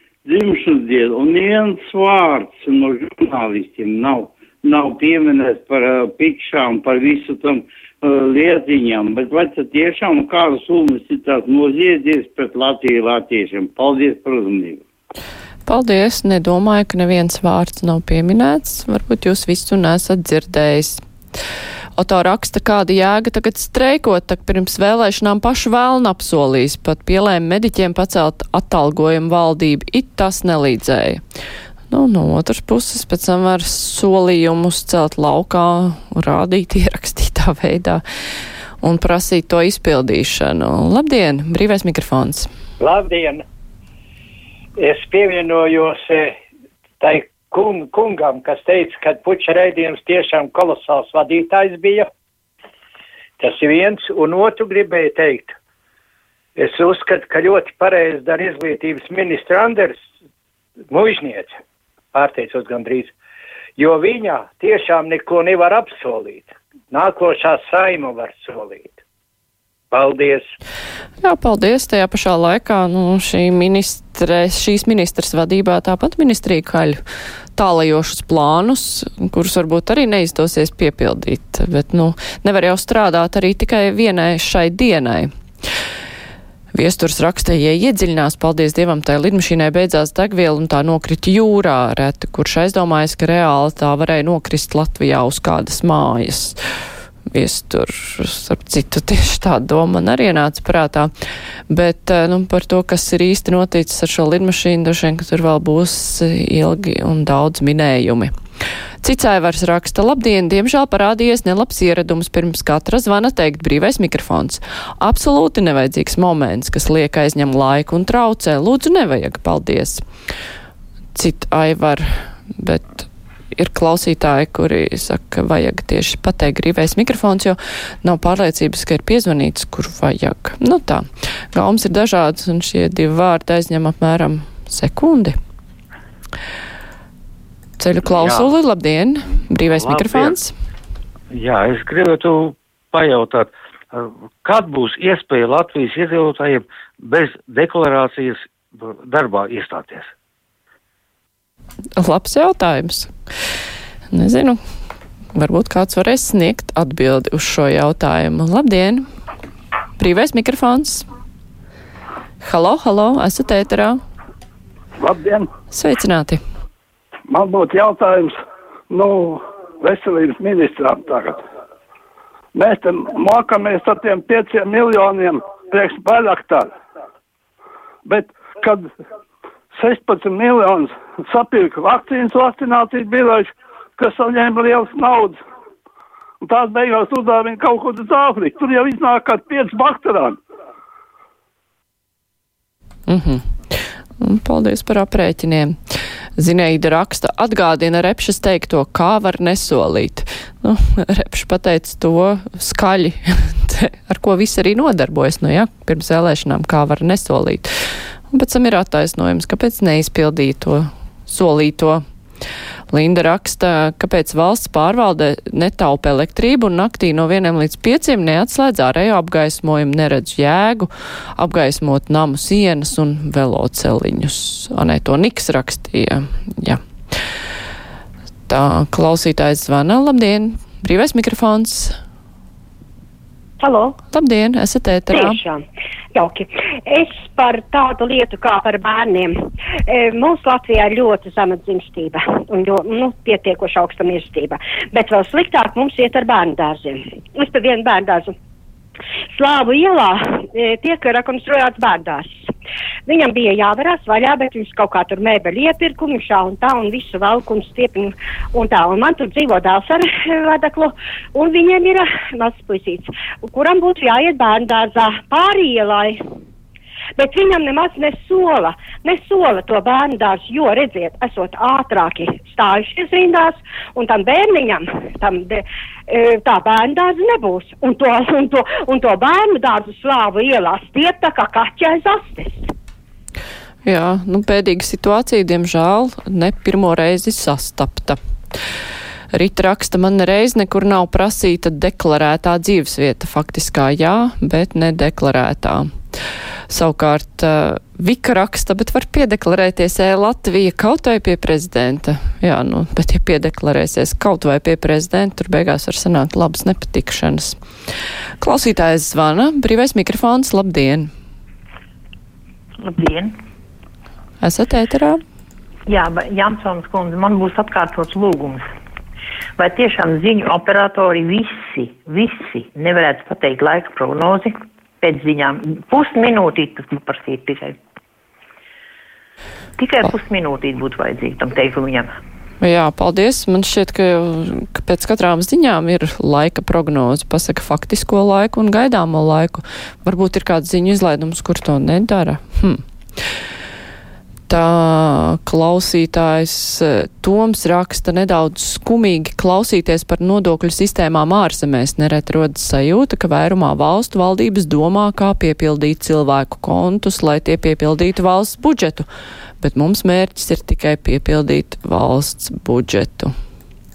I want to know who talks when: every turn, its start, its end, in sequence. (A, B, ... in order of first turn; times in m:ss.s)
0:00.2-0:14.8 A
0:15.6-0:21.0 B
0:22.0-0:31.2 B
0:31.9-0:38.0 B
0:38.8-0:42.5 B
0:42.8-0:43.4 C
0:44.8-0:46.4 C
0:47.0-0:52.1 C
0:53.4-0:55.5 C
0:56.6-1:00.0 C
1:00.9-1:01.6 C
1:02.1-1:03.1 C
1:03.8-1:09.0 C
1:09.9-1:10.5 C
1:11.2-1:17.0 B
1:17.6-1:25.3 B
1:26.7-1:36.6 B
1:37.3-1:41.1 B
1:41.7-1:48.3 B
1:49.0-2:00.0 B
2:01.1-2:15.3 B
2:17.8-2:20.5 B
2:18.1-2:18.5 D
2:19.8-2:20.3 D
2:21.3-2:30.1 D
2:32.0-2:33.1 B
2:34.1-2:34.6 B
2:35.3-2:39.0 B
2:40.0-2:41.0 B
2:42.4-2:44.0 B
2:45.0-2:45.5 E
2:45.7-2:46.4 B
2:47.3-2:48.4 E
2:48.9-2:51.4 E
2:52.5-2:56.7 E
2:58.0-2:58.9 E
2:59.7-3:05.4 E
3:06.4-3:10.4 E
3:13.1-3:15.8 B
3:16.4-3:27.7 B
3:28.3-3:32.0 B
3:32.9-3:46.8 B
3:48.5-3:52.0 B
3:53.6-3:54.0 F
3:54.1-3:55.4 B
3:55.1-3:55.6 F
3:56.1-3:59.3 F
3:59.9-4:08.3 F
4:09.3-4:12.3 F
4:13.1-4:26.2 F
4:27.2-4:42.6 F
4:43.8-4:48.2 B
4:49.3-4:55.9 B
4:56.7-5:07.6 B
5:08.4-5:11.1 B
5:12.8-5:13.4 G
5:14.4-5:15.2 B
5:15.9-5:18.7 G
5:19.6-5:27.8 G
5:29.8-5:32.1 G
5:32.6-5:42.8 B
5:44.5-5:59.1 B
5:59.6-6:03.3 B